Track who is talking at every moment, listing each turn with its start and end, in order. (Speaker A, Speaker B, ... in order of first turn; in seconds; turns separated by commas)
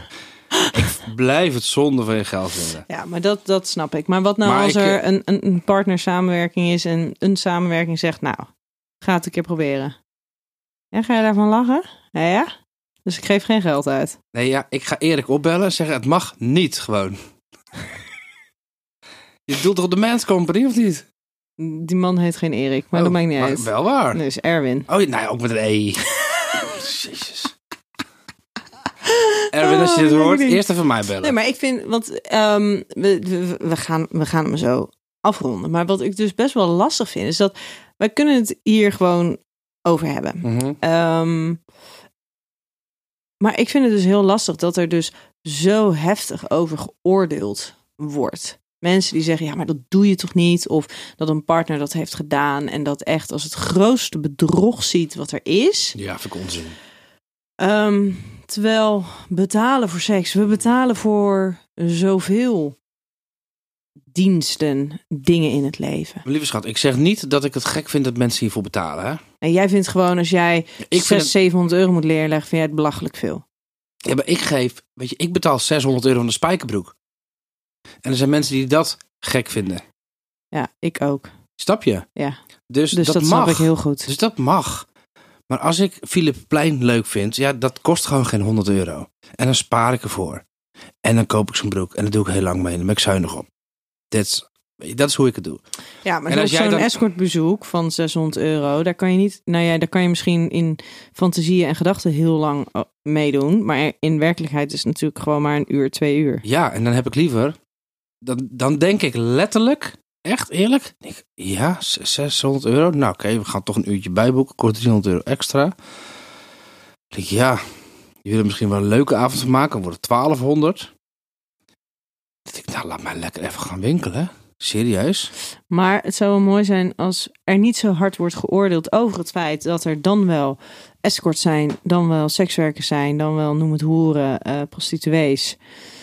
Speaker A: 0.7-2.9, Speaker B: 2.9-8.5, Speaker A: 4.4-5.0, Speaker B: 9.0-10.0, Speaker B: 10.9-12.5, Speaker B: 13.1-14.2, Speaker A: 14.3-17.2, Speaker A: 19.5-21.0, Speaker B: 21.6-24.9, Speaker A: 22.9-24.2, Speaker A: 24.9-27.5, Speaker B: 29.1-30.6, Speaker A: 29.5-31.3, Speaker B: 31.2-41.6, Speaker A: 40.4-40.8, Speaker B: 43.4-56.0, Speaker A: 56.0-56.8, Speaker B: 57.6-62.8, Speaker B: 64.1-66.2, Speaker A: 66.2-69.2, Speaker B: 69.4-73.4, Speaker A: 70.9-71.3, Speaker A: 74.1-76.9, Speaker A: 78.0-79.8, Speaker B: 80.5-81.3, Speaker A: 81.6-82.1, Speaker A: 82.7-84.8, Speaker B: 82.9-84.1, Speaker A: 85.5-90.4, Speaker A: 91.0-93.5, Speaker A: 94.1-95.6, Speaker B: 96.0-106.4, Speaker A: 96.3-96.9, Speaker A: 106.5-107.6, Speaker A: 108.2-115.7, Speaker A: 117.1-117.6, Speaker A: 118.2-120.9, Speaker A: 122.5-125.3, Speaker B: 125.7-135.6